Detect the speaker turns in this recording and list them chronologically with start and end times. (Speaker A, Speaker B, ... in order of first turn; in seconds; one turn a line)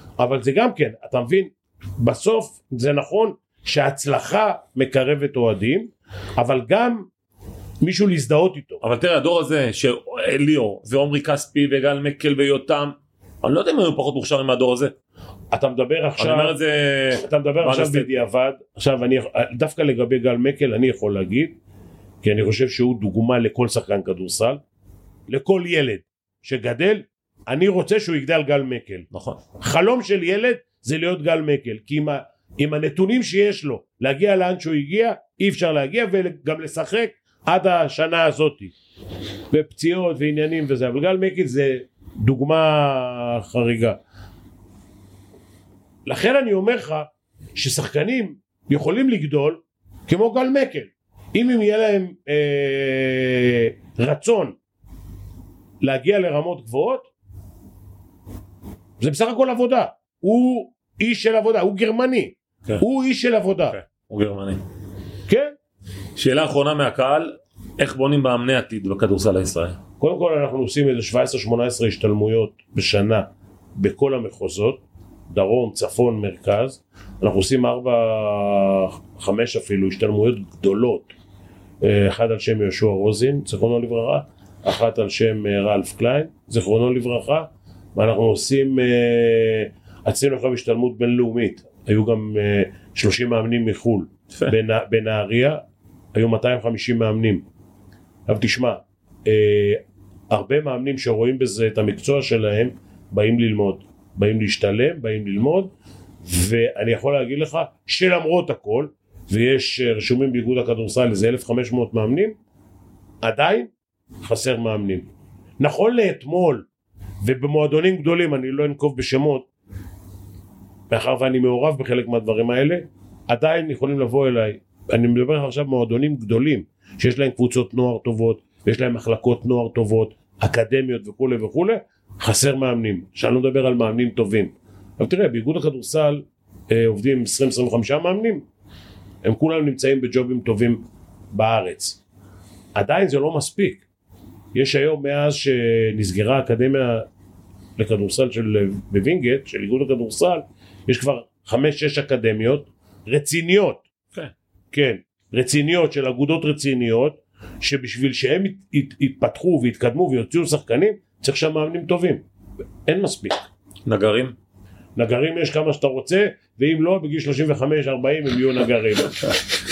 Speaker A: 0.2-7.1
Speaker A: 7.8-8.8
Speaker B: 8.8-14.9
Speaker A: 15.5-16.5
Speaker B: 16.2-18.1
Speaker A: 17.1-21.6
Speaker A: 22.2-24.6
Speaker A: 25.3-38.7
Speaker B: 29.1-29.4
Speaker A: 39.5-44.0
Speaker A: 46.0-54.5
Speaker A: 55.8-57.1
Speaker A: 59.0-63.8
Speaker B: 63.7-64.6
Speaker A: 65.3-65.5
Speaker B: 66.2-69.8
Speaker A: 70.0-81.1
Speaker A: 81.8-95.6
Speaker A: 96.1-97.4
Speaker A: 98.3-105.7
Speaker A: 106.2-112.3
Speaker A: 113.2-113.7
Speaker A: 114.2-115.1
Speaker A: 115.6-116.7
Speaker A: 117.2-119.5
Speaker A: 120.9-138.4
Speaker A: 139.2-142.0
Speaker A: 142.7-143.8
Speaker A: 144.5-147.1
Speaker A: 147.8-153.8
Speaker A: 154.7-162.2
Speaker A: 162.8-163.4
Speaker B: 163.8-164.3
Speaker A: 164.9-169.4